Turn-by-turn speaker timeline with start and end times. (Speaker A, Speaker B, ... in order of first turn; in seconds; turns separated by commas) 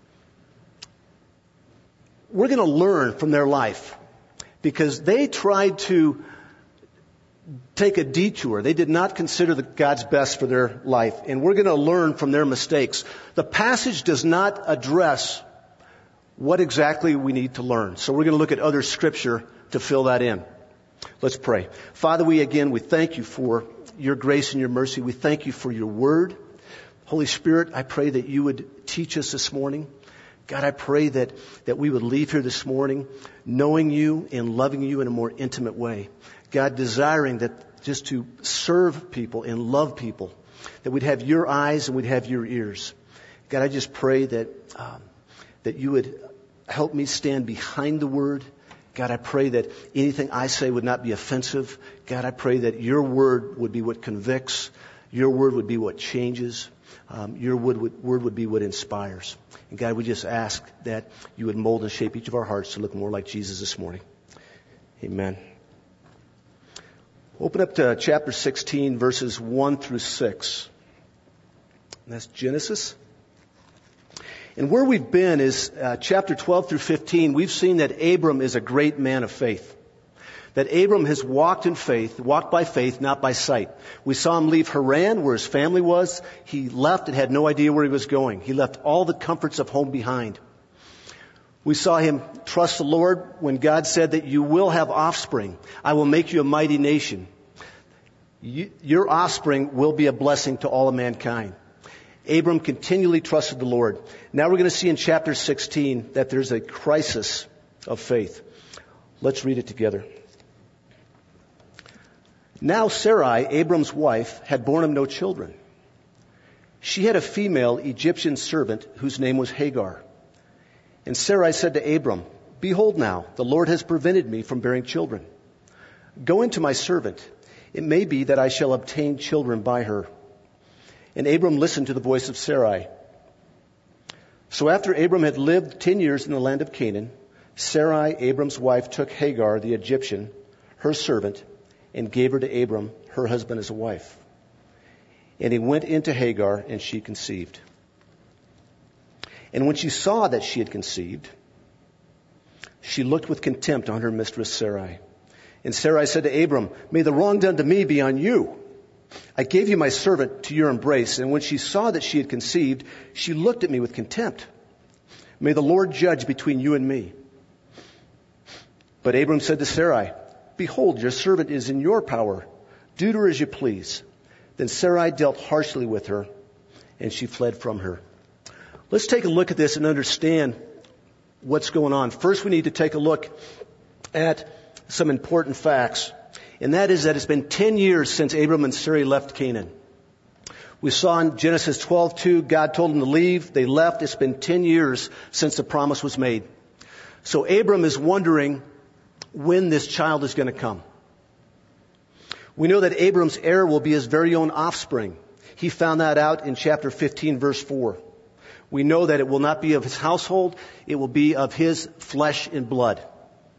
Speaker A: 2.3-4.0, Speaker A: 4.6-6.3, Speaker A: 7.8-15.4, Speaker A: 16.4-20.4, Speaker A: 21.2-26.4, Speaker A: 27.1-29.9, Speaker A: 30.5-43.0, Speaker A: 43.5-45.0, Speaker A: 45.6-64.0, Speaker A: 65.0-65.4, Speaker A: 67.4-70.7, Speaker A: 72.1-73.0, Speaker A: 74.6-79.8, Speaker A: 80.5-90.4, Speaker A: 91.7-97.3, Speaker A: 98.4-101.5, Speaker A: 102.3-108.4, Speaker A: 109.2-110.1, Speaker A: 112.6-115.5, Speaker A: 116.8-120.0, Speaker A: 121.0-125.3, Speaker A: 126.2-130.1, Speaker A: 131.2-132.9, Speaker A: 134.5-144.2, Speaker A: 145.4-147.6, Speaker A: 149.5-151.3, Speaker A: 152.8-155.0, Speaker A: 155.6-158.6, Speaker A: 159.4-164.5, Speaker A: 165.4-167.1, Speaker A: 169.0-174.0, Speaker A: 174.6-176.3, Speaker A: 177.0-178.0, Speaker A: 178.9-180.6, Speaker A: 181.4-183.3, Speaker A: 184.1-189.7, Speaker A: 190.8-196.5, Speaker A: 197.2-198.6, Speaker A: 199.3-200.8, Speaker A: 202.6-208.0, Speaker A: 208.7-213.0